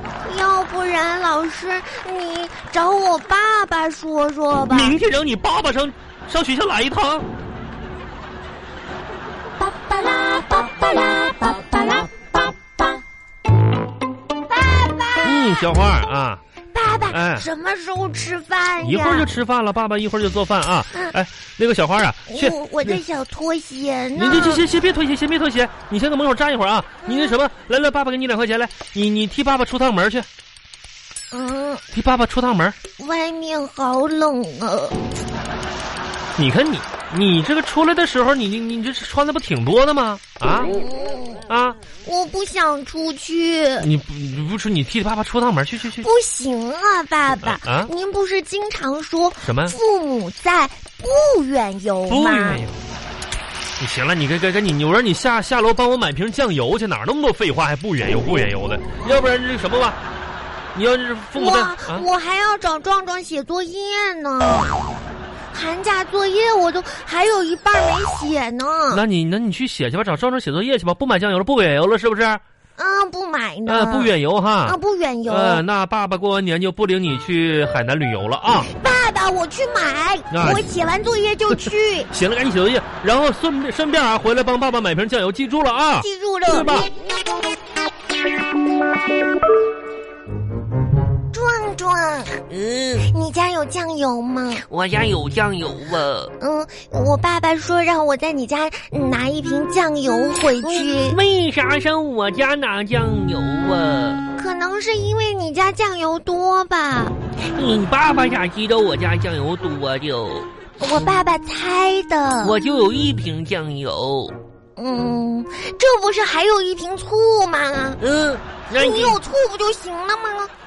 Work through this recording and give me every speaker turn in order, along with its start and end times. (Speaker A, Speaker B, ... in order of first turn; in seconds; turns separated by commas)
Speaker A: 0.2-5.0, Speaker B: 4.7-7.3, Speaker A: 9.6-12.8, Speaker A: 14.5-15.6, Speaker B: 15.2-16.4, Speaker A: 16.7-19.3, Speaker B: 17.1-17.5, Speaker B: 18.8-23.0, Speaker A: 22.3-24.6, Speaker B: 24.2-30.3, Speaker A: 27.0-27.4, Speaker A: 31.3-31.8, Speaker B: 31.9-32.8, Speaker A: 33.0-35.0, Speaker B: 36.4-40.7, Speaker A: 40.6-41.5, Speaker B: 41.5-41.8, Speaker A: 42.0-43.9, Speaker B: 43.8-46.1, Speaker A: 46.0-52.6, Speaker B: 47.4-47.9, Speaker B: 49.4-49.8, Speaker B: 52.1-52.8, Speaker B: 53.8-60.0, Speaker B: 60.7-62.1, Speaker A: 61.4-64.9, Speaker A: 65.5-69.0, Speaker B: 68.9-72.4, Speaker A: 72.8-74.1, Speaker B: 73.7-74.8, Speaker A: 74.7-75.6, Speaker B: 75.3-78.7, Speaker A: 78.6-82.1, Speaker B: 80.3-80.7, Speaker B: 82.1-86.9, Speaker A: 86.0-86.9, Speaker A: 91.3-92.4, Speaker C: 92.5-93.1, Speaker A: 93.0-94.7, Speaker C: 94.7-96.3, Speaker A: 96.4-101.2, Speaker C: 100.6-104.2, Speaker A: 104.3-107.2, Speaker C: 107.5-110.5, Speaker A: 110.8-112.6, Speaker C: 112.4-114.3, Speaker A: 114.8-118.0, Speaker C: 118.0-119.2, Speaker A: 118.7-120.5